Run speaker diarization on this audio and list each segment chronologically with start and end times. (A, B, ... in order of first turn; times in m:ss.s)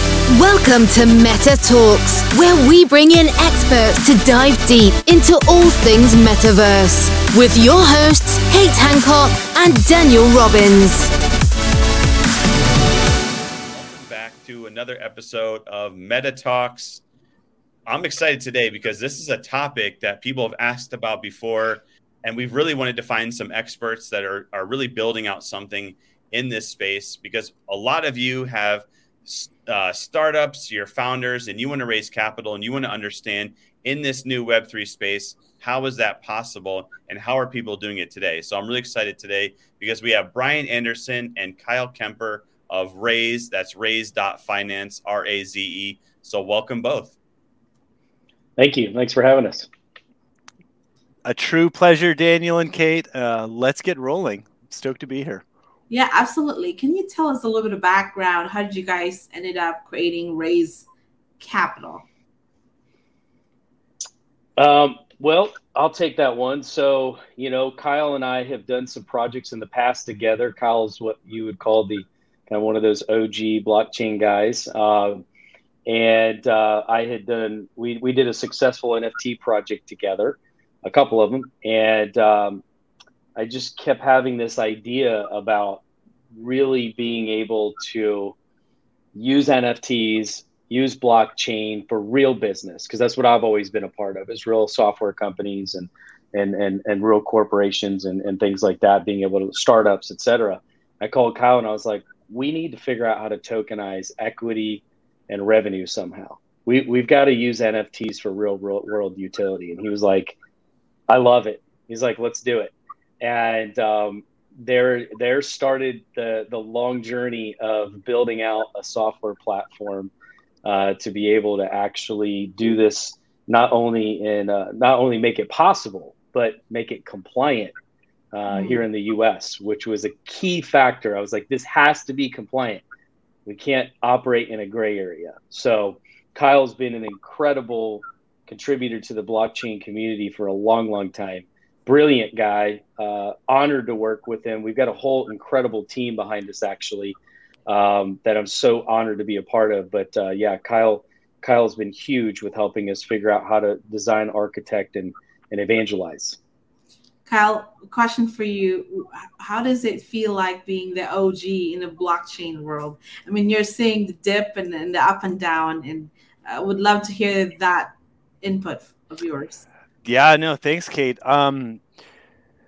0:00.3-0:11.1 A
0:13.7-0:17.0 B
0:17.8-0:47.1 B
0:48.6-0:49.7 C
0:51.2-0:55.4 D
0:55.9-1:00.9 E
1:01.4-1:02.0 E
1:04.6-1:15.2 C
1:15.8-1:22.6 C
1:23.4-1:25.8 C
1:26.3-1:28.3 C
1:29.1-1:50.4 C
1:51.1-2:00.1 C
2:00.6-2:07.7 C
2:08.3-2:12.8 C
2:08.5-2:08.8 E
2:13.4-2:36.4 C
2:37.2-2:49.6 E
2:50.0-2:51.8 D